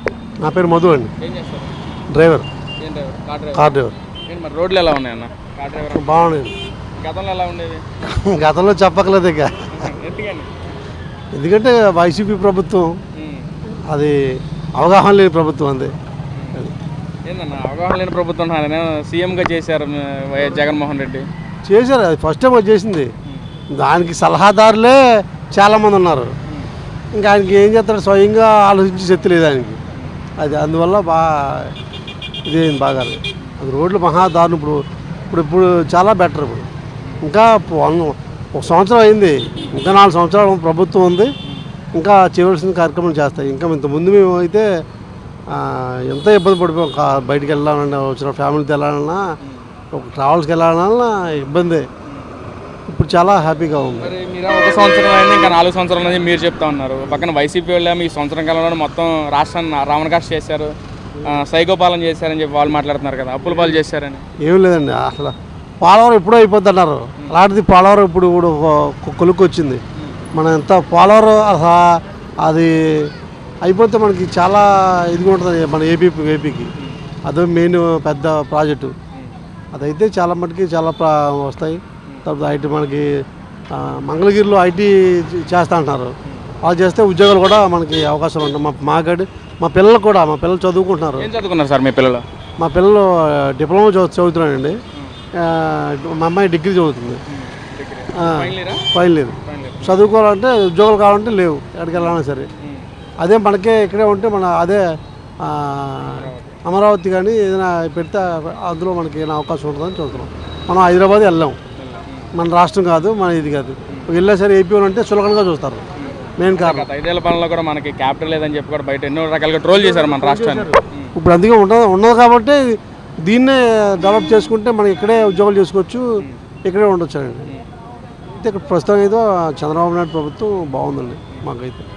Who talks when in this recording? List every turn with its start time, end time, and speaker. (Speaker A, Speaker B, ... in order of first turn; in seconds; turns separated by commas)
Speaker A: 0.4-1.1, Speaker B: 1.2-1.7, Speaker A: 2.1-2.5, Speaker B: 2.8-3.7, Speaker A: 3.5-3.9, Speaker B: 4.3-6.4, Speaker A: 5.9-6.5, Speaker B: 7.0-7.8, Speaker A: 8.1-9.9, Speaker B: 9.7-10.5, Speaker A: 11.3-12.9, Speaker B: 13.2-13.5, Speaker A: 13.9-14.2, Speaker A: 14.8-15.9, Speaker B: 16.3-16.6, Speaker B: 17.3-21.3, Speaker A: 21.7-23.1, Speaker A: 23.7-25.0, Speaker A: 25.5-26.3, Speaker A: 27.1-29.8, Speaker A: 30.4-31.8, Speaker A: 32.5-36.7, Speaker A: 37.2-41.3, Speaker A: 42.0-44.7, Speaker A: 45.5-49.2, Speaker A: 49.9-51.9, Speaker A: 52.9-54.1, Speaker B: 53.9-60.7, Speaker B: 61.2-64.2, Speaker A: 64.4-69.8, Speaker A: 70.3-73.1, Speaker A: 73.7-76.7, Speaker A: 77.3-78.9, Speaker A: 79.7-83.1, Speaker A: 83.7-86.1, Speaker A: 86.6-91.3, Speaker B: 91.2-92.2, Speaker A: 92.6-94.8, Speaker A: 95.4-97.2, Speaker B: 97.3-98.8, Speaker A: 98.2-102.5, Speaker B: 99.5-100.0, Speaker B: 101.9-102.9, Speaker A: 103.2-104.8, Speaker A: 105.4-111.6, Speaker B: 106.0-106.6, Speaker B: 111.8-112.3, Speaker A: 112.3-115.8, Speaker B: 116.0-121.1, Speaker A: 116.4-116.9, Speaker A: 119.7-126.1, Speaker A: 126.7-127.5, Speaker A: 128.3-131.8